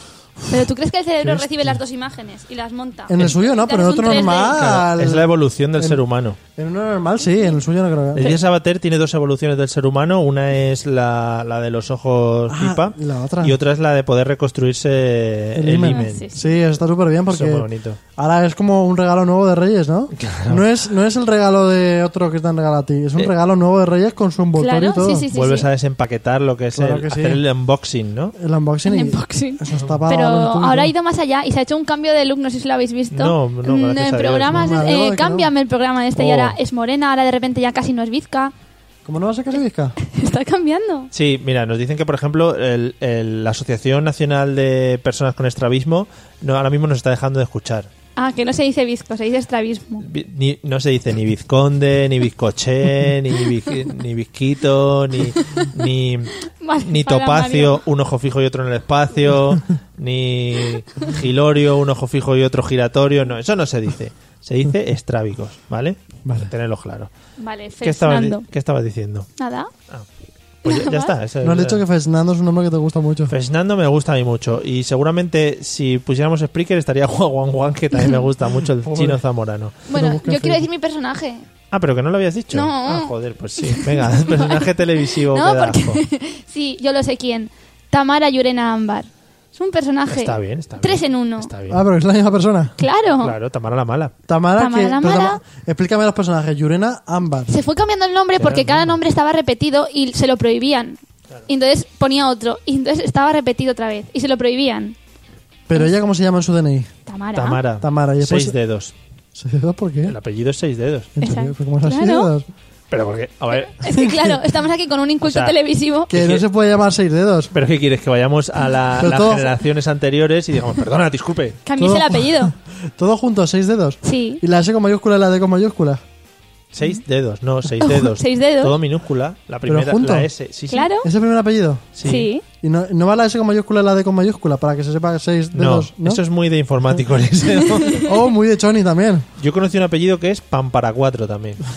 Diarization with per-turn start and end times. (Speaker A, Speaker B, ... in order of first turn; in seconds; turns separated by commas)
Speaker A: 0.4-0.7, Speaker B: 0.5-4.7, Speaker A: 1.2-1.7, Speaker A: 3.1-6.0, Speaker C: 4.5-6.4, Speaker A: 6.6-8.4, Speaker C: 8.2-16.3, Speaker A: 12.5-13.6, Speaker A: 15.6-25.3, Speaker B: 15.9-16.5, Speaker C: 17.3-18.0, Speaker C: 20.1-20.7, Speaker B: 24.6-25.7, Speaker C: 25.3-28.4, Speaker A: 26.7-27.4, Speaker A: 28.4-30.9, Speaker B: 28.9-38.5, Speaker C: 29.8-30.0, Speaker C: 33.1-34.7, Speaker A: 34.5-35.5, Speaker C: 36.2-36.6, Speaker A: 39.0-40.0, Speaker B: 40.0-41.1, Speaker C: 41.1-47.9, Speaker B: 48.2-50.0, Speaker C: 50.0-67.1, Speaker B: 56.6-57.8, Speaker A: 66.2-66.5, Speaker B: 67.4-68.5, Speaker C: 67.8-69.3, Speaker B: 69.4-69.7, Speaker C: 70.6-71.8, Speaker B: 70.7-71.1, Speaker A: 71.4-73.3, Speaker C: 73.3-79.8, Speaker A: 78.8-79.2, Speaker A: 79.9-80.7, Speaker B: 79.9-81.5, Speaker C: 81.7-86.0, Speaker B: 82.5-91.5, Speaker C: 90.1-91.8, Speaker A: 91.7-92.8, Speaker B: 92.8-93.3, Speaker C: 93.2-94.1, Speaker A: 94.3-97.5, Speaker B: 94.6-95.4, Speaker B: 97.5-105.0, Speaker C: 98.4-99.0, Speaker A: 105.7-106.9, Speaker B: 107.1-107.6, Speaker C: 107.3-108.9, Speaker A: 107.8-108.6, Speaker A: 109.3-110.2, Speaker C: 110.1-111.1, Speaker A: 111.2-112.5, Speaker B: 111.2-112.3, Speaker C: 112.9-113.8, Speaker B: 113.5-116.1, Speaker A: 113.9-114.4, Speaker C: 115.2-115.6, Speaker A: 116.1-117.5, Speaker C: 116.1-116.5, Speaker C: 117.5-121.6, Speaker A: 119.0-119.6, Speaker B: 121.7-122.5, Speaker A: 121.8-126.0, Speaker B: 124.0-124.4, Speaker C: 126.7-130.9, Speaker B: 127.8-128.8, Speaker A: 129.7-130.3, Speaker B: 130.7-131.1, Speaker A: 131.0-131.9, Speaker C: 132.0-132.3, Speaker B: 132.1-132.4, Speaker A: 132.6-136.2, Speaker C: 135.5-138.1, Speaker A: 138.0-139.3, Speaker C: 139.4-141.6